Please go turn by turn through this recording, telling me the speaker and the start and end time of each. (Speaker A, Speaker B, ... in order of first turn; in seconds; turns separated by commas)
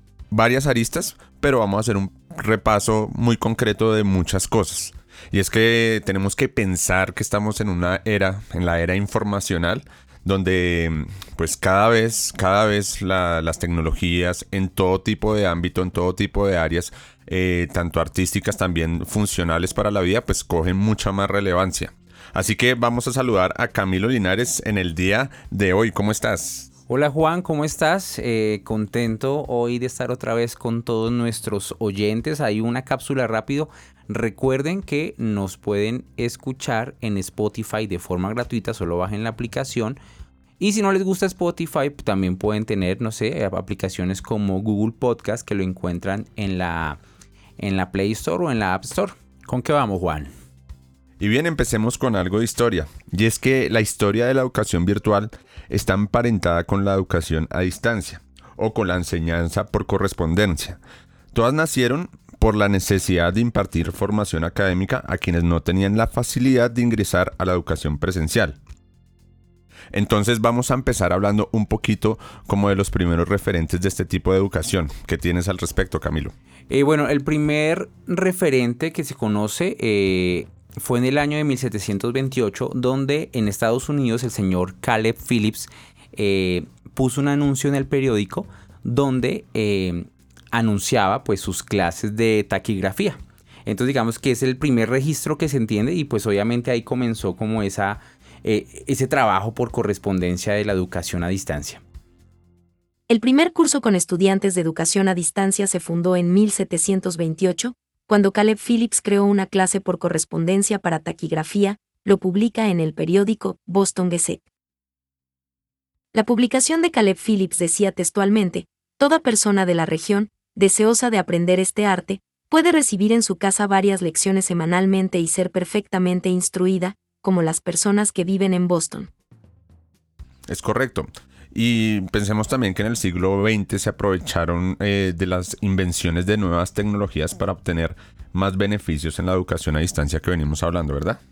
Speaker A: 0.3-26.7, Speaker B: 26.9-40.0, Speaker B: 40.6-47.0, Speaker B: 47.6-50.3, Speaker A: 51.2-60.8, Speaker A: 61.3-68.6, Speaker A: 69.9-76.3, Speaker B: 76.7-101.8, Speaker C: 103.1-114.4, Speaker C: 116.1-129.1, Speaker A: 130.5-141.2